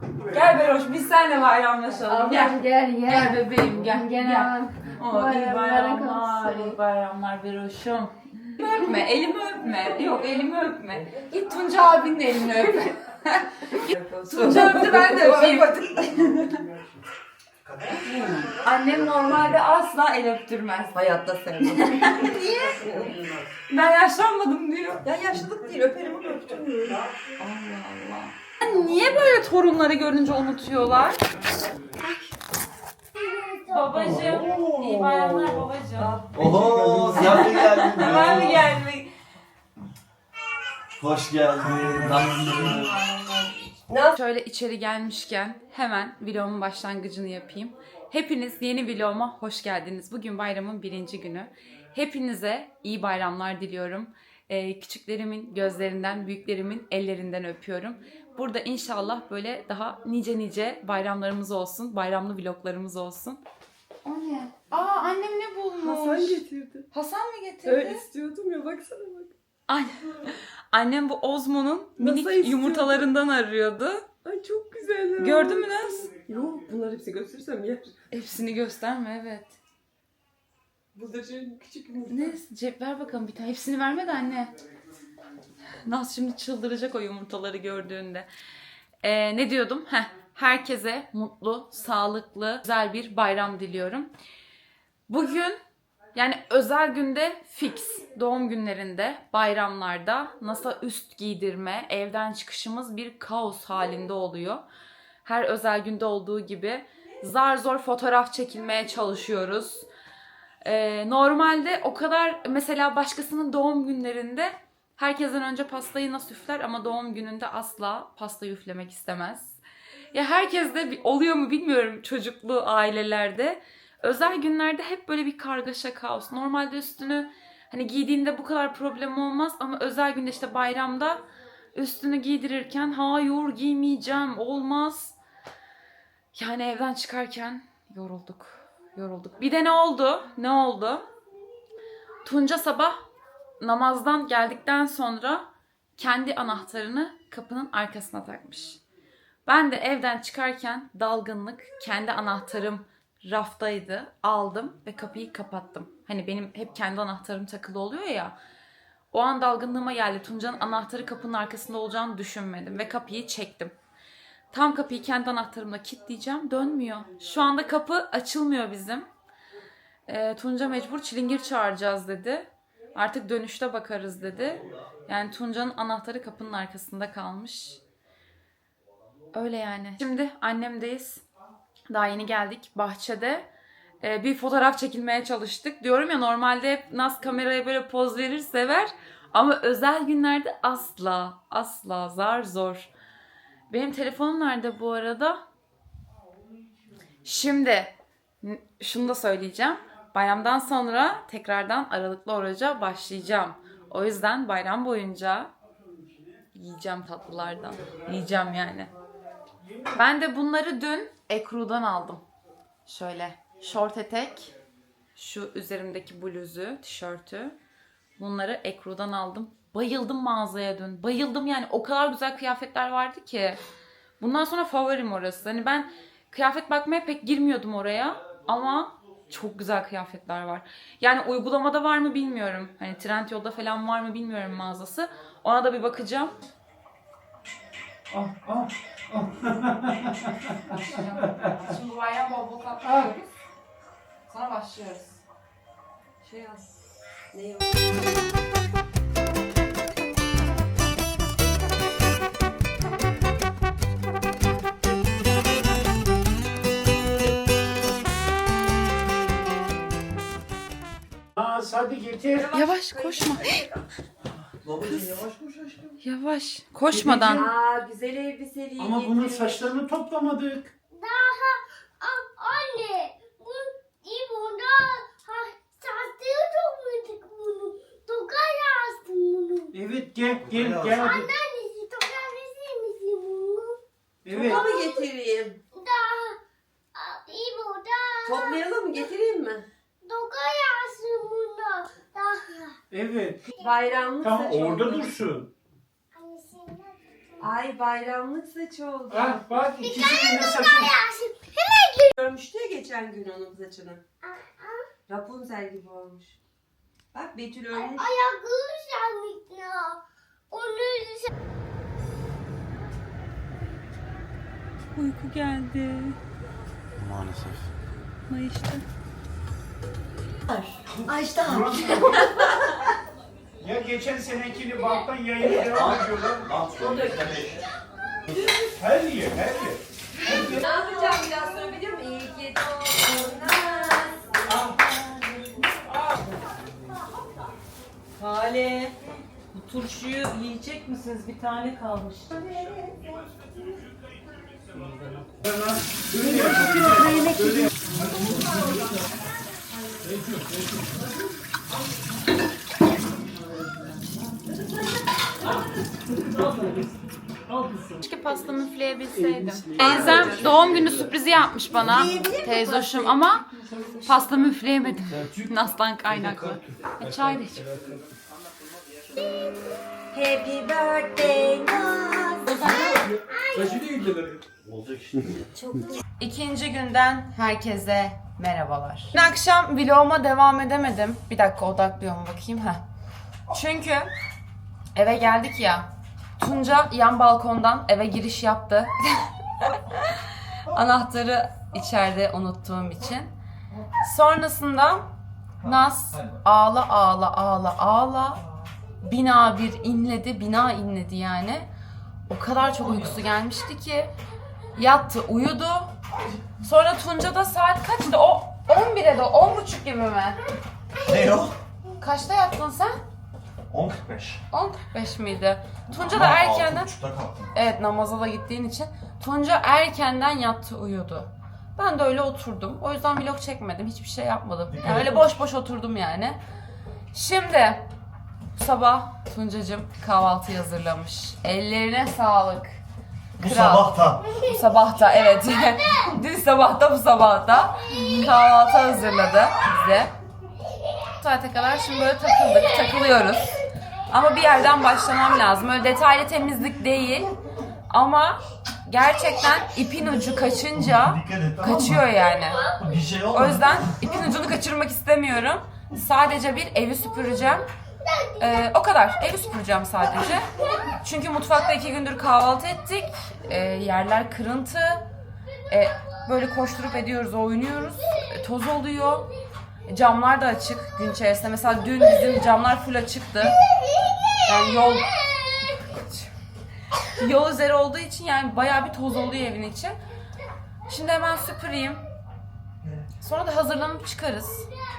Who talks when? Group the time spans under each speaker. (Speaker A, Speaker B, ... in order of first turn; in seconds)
Speaker A: 0.2-0.5, 16.3-16.9, 17.6-18.8, 22.0-23.5, 26.9-27.3, 34.0-35.6, 36.4-37.3, 41.7-42.9, 209.7-209.9, 238.1-241.5, 242.8-243.1, 261.4-262.5, 266.9-267.5, 268.8-270.7, 279.7-281.3, 284.2-284.6, 292.9-293.5, 294.2-295.5, 299.1-300.9, 321.4-322.4, 323.6-326.4, 328.8-330.6, 334.5-334.8, 344.7-348.6, 350.0-351.0, 356.2-356.9, 357.5-358.0, 359.1-360.4, 363.5-364.0, 367.6-367.9, 373.6-374.4
Speaker B: 0.3-15.9, 18.0-21.0, 21.7-22.4, 23.7-25.0, 27.4-31.2, 33.7-36.2, 37.1-39.1, 43.1-43.4, 44.1-63.4, 64.0-68.0, 69.7-74.0, 75.2-76.1, 78.1-79.6, 82.1-84.5, 85.8-88.3, 89.0-94.1, 95.1-95.6, 96.1-104.6, 105.2-109.9, 110.6-119.6, 120.1-131.2, 131.7-135.2, 136.3-141.1, 142.2-143.0, 143.6-148.8, 149.4-158.3, 159.1-163.7, 164.5-169.1, 170.1-177.8, 179.3-181.2, 181.9-183.5, 184.0-192.9, 193.7-195.4, 197.2-205.5, 206.5-208.9, 209.9-212.2, 212.8-214.5, 215.2-217.6, 218.2-223.6, 224.2-236.4, 240.8-243.3, 244.3-245.2, 262.5-263.5, 266.0-267.5, 314.9-316.2, 318.3-318.8, 358.0-363.5, 364.0-367.6, 372.4-373.1, 376.2-382.8, 383.5-384.1, 384.9-385.9, 386.4-393.3, 394.0-395.1, 395.6-398.4, 399.0-401.7, 402.3-404.1, 404.8-405.9, 406.6-410.4, 412.0-413.0, 414.5-416.9, 417.5-426.4, 427.1-427.9, 428.5-432.8, 433.4-440.1, 441.2-443.5, 444.1-447.3, 447.9-452.6, 453.3-457.6, 458.4-460.5, 461.0-465.1, 465.7-469.3, 469.9-473.6, 474.4-476.3, 477.1-479.9, 480.9-482.0, 483.2-484.7
Speaker C: 2.1-3.3, 3.9-4.7, 5.2-6.7, 13.8-16.6, 20.9-23.2, 25.0-27.0, 36.0-37.4, 43.9-44.2, 65.8-66.9, 67.6-69.3, 72.0-73.1, 74.2-78.0, 80.9-82.3, 246.2-246.7, 247.3-247.8, 262.3-263.8, 267.3-269.7, 284.3-285.6, 288.2-289.6, 293.6-295.1, 297.4-299.4, 302.1-304.0, 305.1-306.4, 307.1-308.1, 320.5-322.8, 326.8-327.2, 330.2-334.7, 338.2-338.9, 339.6-342.9, 346.1-349.0, 359.8-360.4, 361.8-363.1, 370.1-373.1
Speaker D: 3.9-4.7, 5.3-6.2, 33.1-34.2, 270.9-279.7, 280.9-283.8, 284.4-285.1, 285.7-286.4, 286.9-288.6, 290.0-292.8, 296.1-297.4, 299.8-302.1, 304.2-304.9, 307.7-311.3, 369.1-369.8, 372.9-373.9, 375.6-376.0
Speaker E: 36.3-38.7, 41.0-43.0, 264.5-266.0, 280.4-281.1, 317.0-317.6, 325.6-327.7, 359.8-361.1, 365.1-365.5, 366.1-367.1, 374.5-375.4, 395.6-396.4, 402.8-403.1, 411.1-411.6, 413.7-414.4, 415.9-417.7, 424.7-425.3, 433.4-434.2, 450.7-452.1, 452.8-454.3